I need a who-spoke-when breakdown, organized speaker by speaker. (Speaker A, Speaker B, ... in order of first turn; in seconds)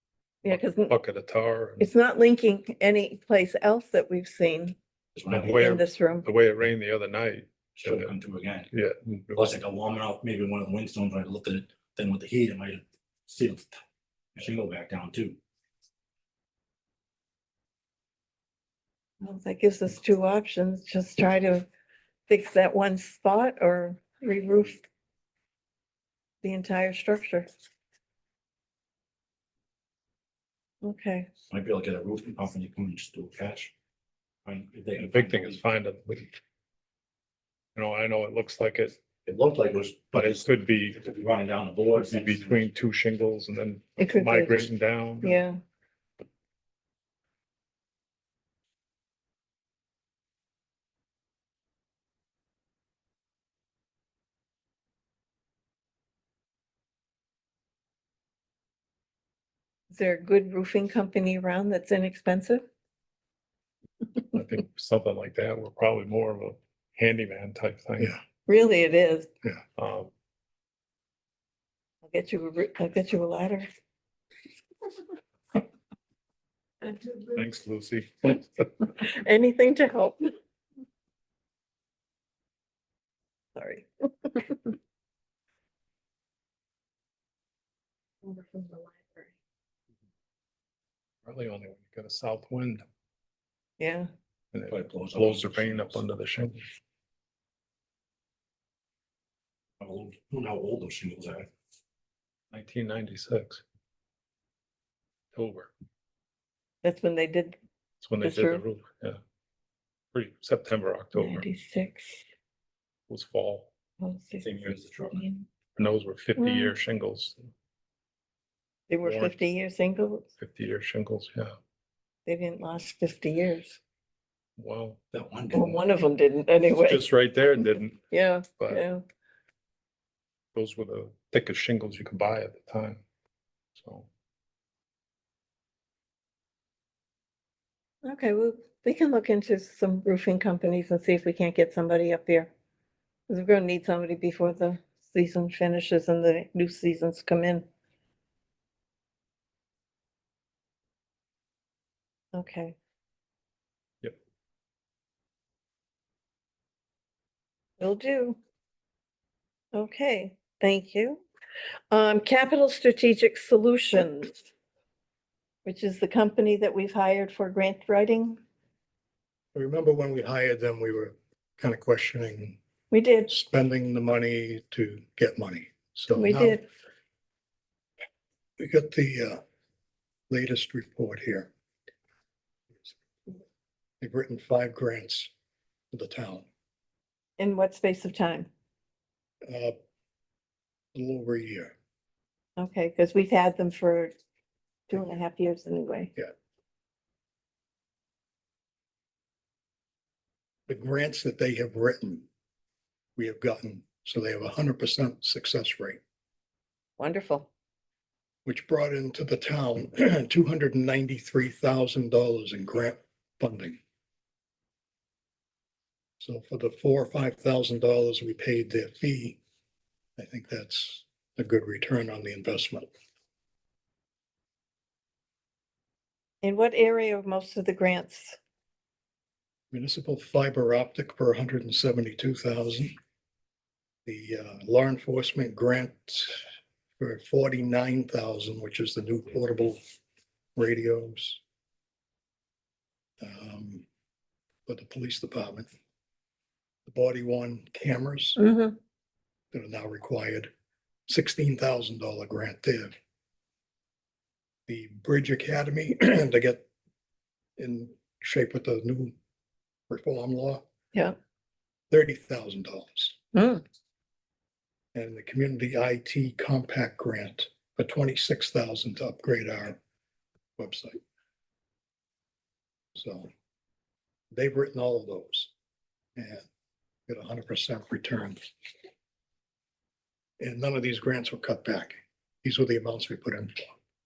Speaker A: 0.4-0.9, 1.8-4.8, 5.5-6.3, 19.2-21.7, 22.3-24.8, 26.4-27.5, 30.8-31.3, 44.0-44.6, 45.2-45.6, 59.9-62.6, 68.5-69.3, 72.0-73.6, 76.8-77.3, 78.8-80.3, 83.5-84.7, 88.2-89.3, 93.8-94.1, 106.8-107.6, 108.2-108.6, 111.2-112.2, 114.0-114.5, 115.2-115.4, 116.4-116.7, 118.9-120.3, 122.2-123.8, 125.5-127.0, 128.1-129.0, 138.0-142.5, 143.3-147.7, 152.3-152.8, 157.8-158.4, 159.7-161.2, 161.9-164.4, 165.6-168.4, 172.9-173.3, 176.1-176.7, 187.4-188.5, 192.6-194.1, 194.9-196.1, 207.0-207.5, 226.4-228.4, 248.4-248.8, 263.3-263.6
Speaker B: 0.5-1.9, 5.3-8.1, 8.7-9.5, 35.0-36.3, 37.7-39.0, 40.1-41.0, 42.0-45.4, 64.3-68.2, 69.8-70.1, 77.3-78.7, 91.2-92.8, 94.5-96.6, 102.5-103.6, 105.3-105.7, 108.0-109.2, 110.1-111.5, 113.1-113.7, 115.8-117.4, 119.0-119.4, 120.4-121.5, 124.6-125.0, 126.8-128.8, 130.5-133.0, 133.8-134.1
Speaker C: 5.1-5.7, 7.8-8.7, 9.3-13.7, 14.3-15.4, 31.5-33.7, 34.4-35.6, 39.2-42.6, 94.7-96.1, 99.8-101.5, 114.4-115.3, 125.1-125.8
Speaker D: 169.5-172.6, 173.3-176.6, 178.6-179.4, 180.3-181.5, 184.0-185.3, 185.9-186.4, 189.4-189.7, 190.9-191.7, 200.7-202.3, 203.2-206.0, 208.4-213.8, 216.2-219.4, 220.2-222.9, 229.7-232.9, 234.1-236.4, 237.0-239.8, 240.6-241.4, 243.2-243.8, 244.7-245.7, 246.8-248.4, 249.5-250.5, 251.1-252.9, 254.7-256.6, 257.6-259.1, 259.9-260.6, 261.9-263.2, 264.9-269.8, 270.6-271.0, 272.9-273.3, 274.3-275.5, 276.1-276.4, 277.1-278.4, 280.4-283.7